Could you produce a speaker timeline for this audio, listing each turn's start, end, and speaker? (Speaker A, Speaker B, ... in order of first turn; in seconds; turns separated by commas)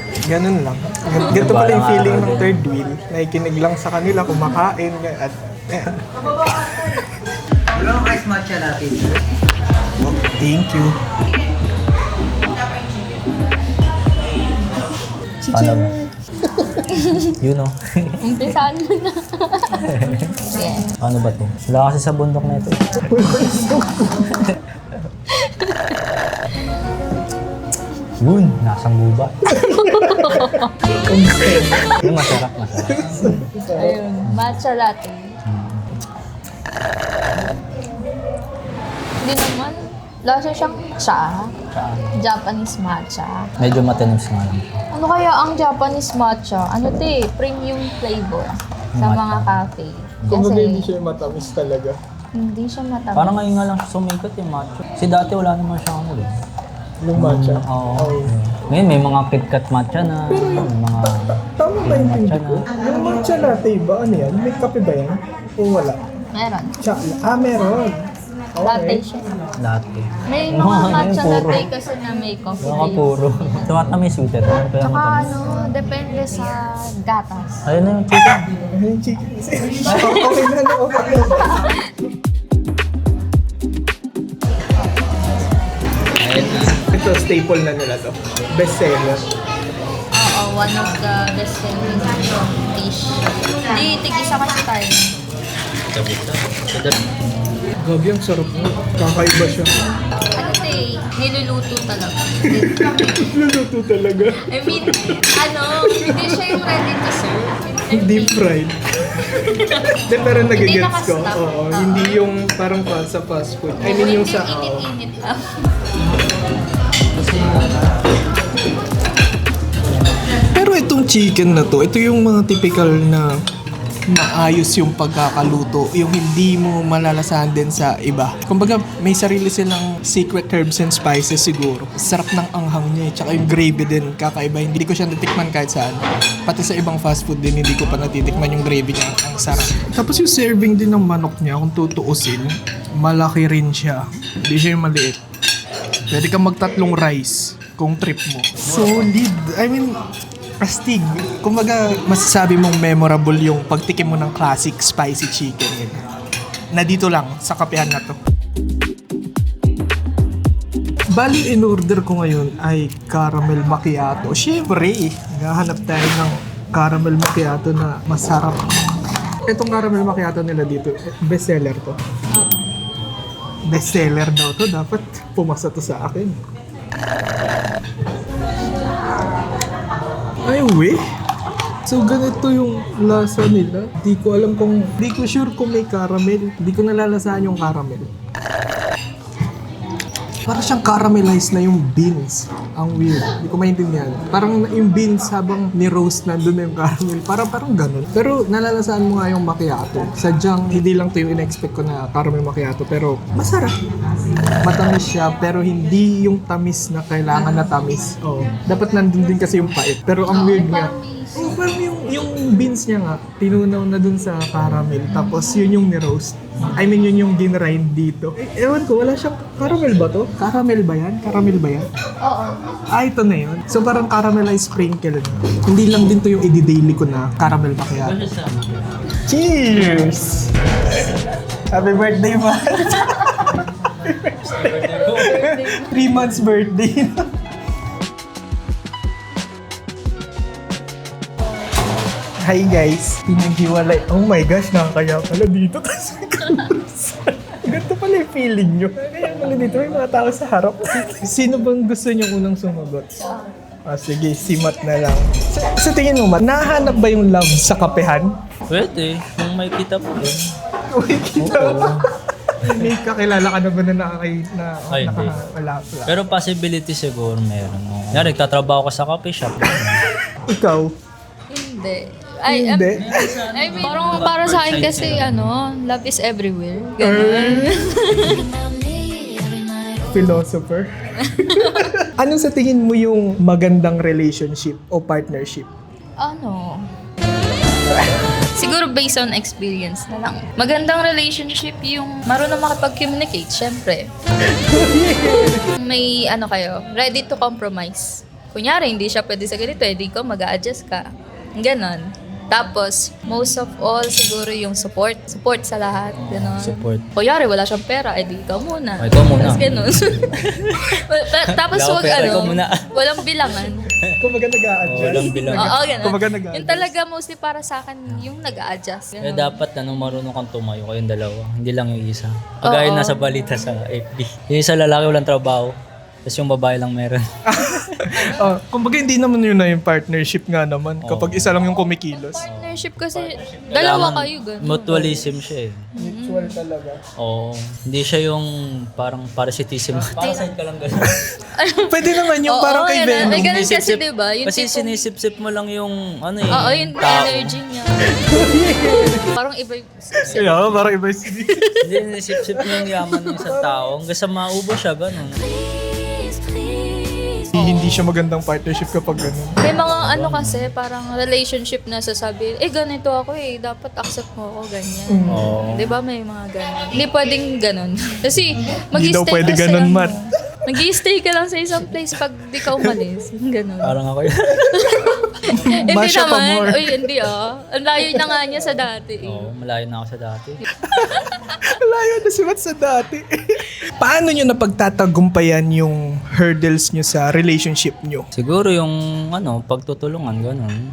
Speaker A: 0.2-6.0, Speaker B: 1.3-2.6, Speaker A: 6.5-7.1, Speaker B: 7.9-9.1, Speaker A: 10.0-11.0, Speaker A: 15.4-16.7, Speaker B: 15.5-15.9, Speaker C: 16.9-17.3, Speaker B: 17.4-18.2, Speaker C: 18.2-19.9, Speaker B: 19.8-20.4, Speaker C: 20.5-20.9, Speaker B: 21.0-22.9, Speaker A: 23.1-24.3, Speaker C: 25.3-26.0, Speaker B: 28.2-29.4, Speaker A: 29.5-32.3, Speaker C: 29.7-31.0, Speaker C: 31.6-32.0, Speaker B: 31.9-33.2, Speaker A: 32.9-34.0, Speaker C: 33.7-35.3, Speaker B: 34.3-34.6, Speaker B: 35.5-35.9, Speaker C: 39.2-41.5, Speaker B: 41.7-42.1, Speaker C: 42.2-43.5, Speaker B: 43.6-44.8, Speaker C: 44.9-51.0, Speaker B: 49.0-49.6, Speaker A: 50.3-52.0, Speaker C: 52.4-53.5, Speaker B: 53.1-56.3, Speaker A: 57.0-58.3, Speaker B: 57.1-62.7, Speaker A: 60.3-66.0, Speaker C: 66.3-66.8, Speaker A: 66.8-69.0, Speaker C: 68.6-69.3, Speaker B: 69.6-71.7, Speaker C: 70.3-73.7, Speaker B: 72.6-75.3, Speaker C: 74.8-77.7, Speaker B: 77.7-78.5, Speaker A: 78.7-81.8, Speaker C: 81.5-81.8, Speaker B: 86.2-86.8, Speaker A: 86.9-89.2, Speaker C: 90.1-95.1, Speaker B: 95.9-97.1, Speaker A: 97.8-99.7, Speaker C: 100.3-103.1, Speaker A: 102.5-105.1, Speaker C: 104.5-108.5, Speaker A: 105.8-106.6, Speaker A: 107.9-114.9, Speaker C: 109.5-112.2, Speaker C: 113.8-115.7, Speaker A: 120.5-123.4, Speaker A: 124.1-145.2, Speaker A: 146.1-150.0, Speaker B: 148.6-149.1, Speaker A: 150.6-156.1, Speaker A: 156.7-158.2, Speaker A: 161.1-168.8, Speaker A: 169.4-172.0, Speaker C: 172.3-172.7, Speaker A: 173.7-176.4, Speaker A: 180.5-181.0, Speaker A: 181.9-188.1, Speaker A: 190.5-203.8, Speaker A: 204.6-221.9, Speaker C: 207.3-207.8, Speaker C: 208.7-211.6, Speaker B: 219.6-220.3, Speaker C: 222.2-222.8, Speaker A: 222.9-228.2, Speaker B: 227.9-229.0, Speaker A: 229.3-231.1, Speaker A: 231.7-237.3, Speaker B: 234.4-235.5, Speaker C: 235.1-236.4, Speaker A: 242.4-253.2, Speaker C: 253.2-253.5, Speaker A: 253.9-258.3, Speaker B: 258.7-260.5, Speaker A: 260.9-262.1, Speaker B: 261.4-262.1, Speaker A: 262.6-266.2, Speaker B: 262.6-262.9, Speaker B: 264.9-265.4, Speaker B: 266.1-270.1, Speaker A: 270.5-270.9, Speaker C: 271.5-280.1, Speaker A: 272.5-273.3, Speaker B: 272.9-275.5, Speaker A: 277.0-277.8, Speaker A: 280.1-280.9, Speaker C: 281.2-281.9, Speaker A: 281.5-285.7, Speaker C: 286.2-286.9, Speaker C: 288.4-294.1, Speaker A: 294.5-295.7, Speaker C: 295.7-301.1, Speaker C: 301.6-313.9, Speaker B: 306.1-307.1, Speaker B: 309.0-309.6, Speaker B: 310.3-310.9, Speaker B: 311.5-312.9, Speaker A: 314.2-316.9, Speaker B: 314.9-316.1, Speaker C: 315.0-319.6, Speaker B: 318.1-318.6, Speaker B: 319.2-328.5, Speaker C: 322.6-323.7, Speaker A: 327.5-332.4, Speaker B: 331.0-331.7, Speaker C: 331.9-335.3, Speaker B: 332.4-335.8, Speaker C: 335.9-336.6, Speaker A: 336.0-337.0, Speaker B: 337.2-341.2, Speaker C: 340.1-340.5, Speaker C: 341.6-345.0, Speaker A: 341.9-343.7, Speaker B: 343.2-347.5, Speaker C: 346.5-350.9, Speaker A: 348.2-349.2, Speaker B: 350.2-350.6, Speaker A: 350.3-351.6, Speaker C: 351.5-351.8, Speaker B: 351.8-355.4, Speaker C: 352.6-353.3, Speaker A: 353.4-353.8, Speaker C: 355.3-357.8, Speaker A: 357.5-359.6, Speaker C: 359.6-374.0, Speaker B: 359.7-360.7, Speaker A: 365.1-365.6, Speaker B: 365.3-366.0, Speaker A: 368.9-370.2, Speaker B: 373.8-374.8, Speaker C: 374.6-379.5, Speaker A: 374.7-377.1, Speaker A: 378.1-378.5, Speaker B: 379.2-380.6, Speaker A: 380.9-388.3, Speaker C: 381.1-381.4, Speaker B: 388.4-390.8